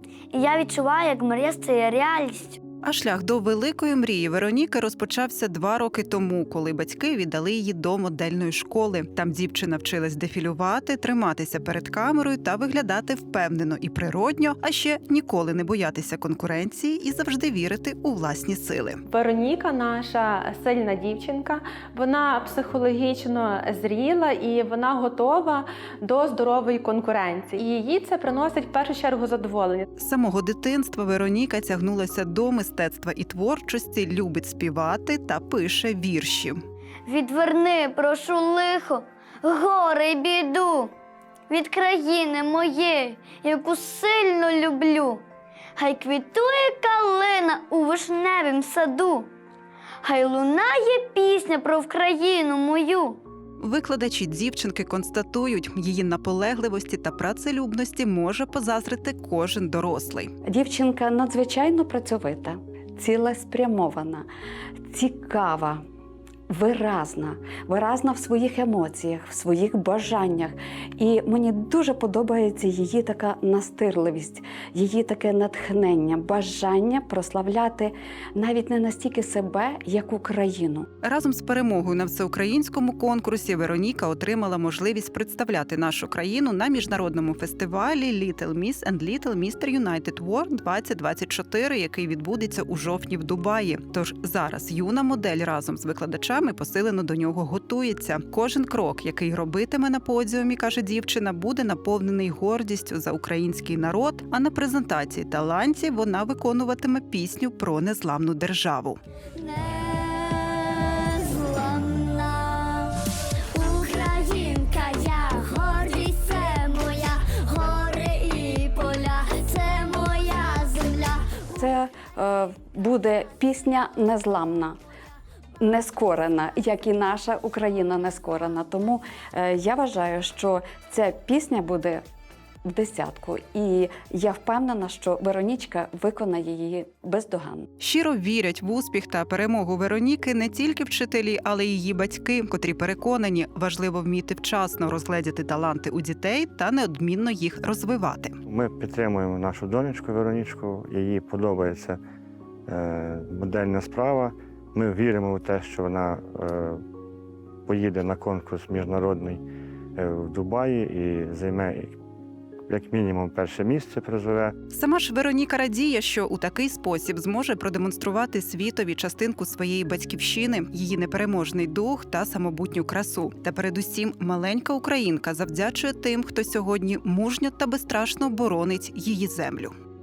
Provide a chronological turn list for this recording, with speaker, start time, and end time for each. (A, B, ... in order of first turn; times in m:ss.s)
0:00.3-0:02.6 A
0:02.8-0:19.0 B
0:19.1-0:29.9 C
0:30.0-0:36.6 B
0:37.1-0:40.9 A
0:41.5-0:45.2 A
0:45.8-0:49.3 A
0:50.0-0:53.2 A
0:53.6-1:00.3 B
1:00.4-1:04.3 D
1:04.9-1:05.8 D
1:06.5-1:20.9 D
1:21.0-1:49.0 B
1:49.4-2:01.5 A
2:01.6-2:04.8 D
2:05.6-2:12.0 D
2:12.6-2:17.7 D
2:17.8-2:28.4 B
2:28.5-2:32.0 E
2:32.7-2:36.8 E
2:37.7-2:39.4 E
2:40.0-2:42.0 E
2:42.7-2:44.6 E
2:44.7-2:59.8 B